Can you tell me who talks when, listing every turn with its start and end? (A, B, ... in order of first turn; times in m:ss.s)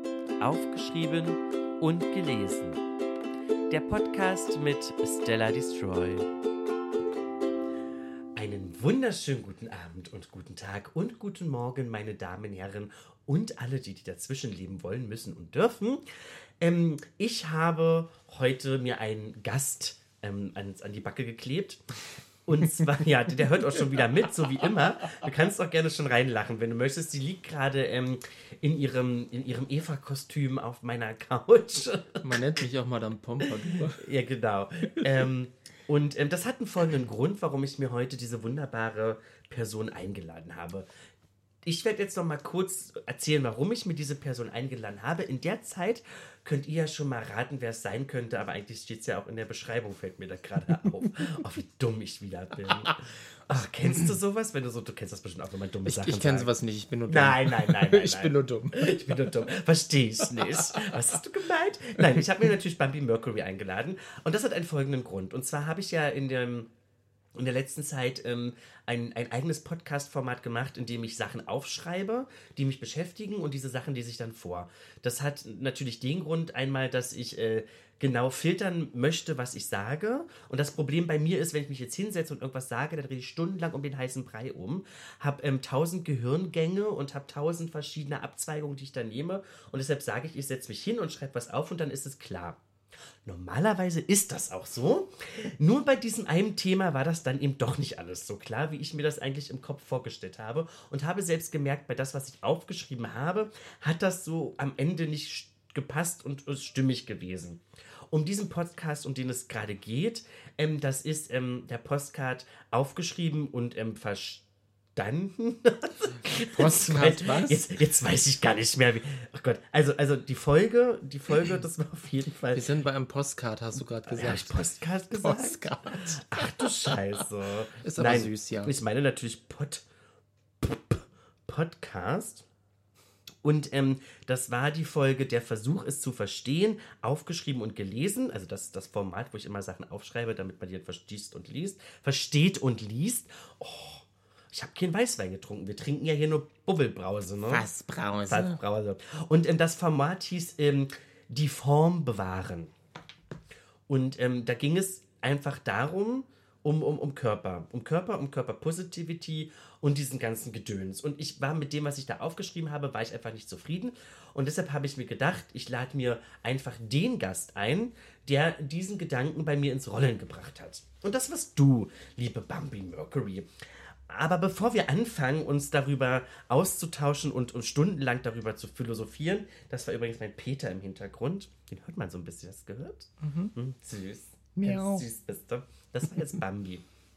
0:00.4-0:02.8 A
0:03.7-0:06.3 A
0:08.3-0:21.8 A
0:22.4-0:32.4 A
0:32.2-0:34.1 B
0:33.8-0:40.8 A
0:41.6-0:56.5 A
0:55.8-0:59.3 B
0:57.1-1:06.7 A
1:00.6-1:00.9 B
1:07.3-1:32.6 A
1:33.2-2:02.7 A
1:56.3-1:57.6 B
2:02.5-2:04.6 B
2:04.0-2:09.8 A
2:05.2-2:07.2 B
2:07.8-2:08.7 B
2:10.6-2:12.4 A
2:13.4-2:27.6 A
2:27.4-2:28.6 B
2:28.3-2:32.7 A
2:33.9-3:06.8 A
3:03.2-3:03.5 B
3:04.6-3:05.0 B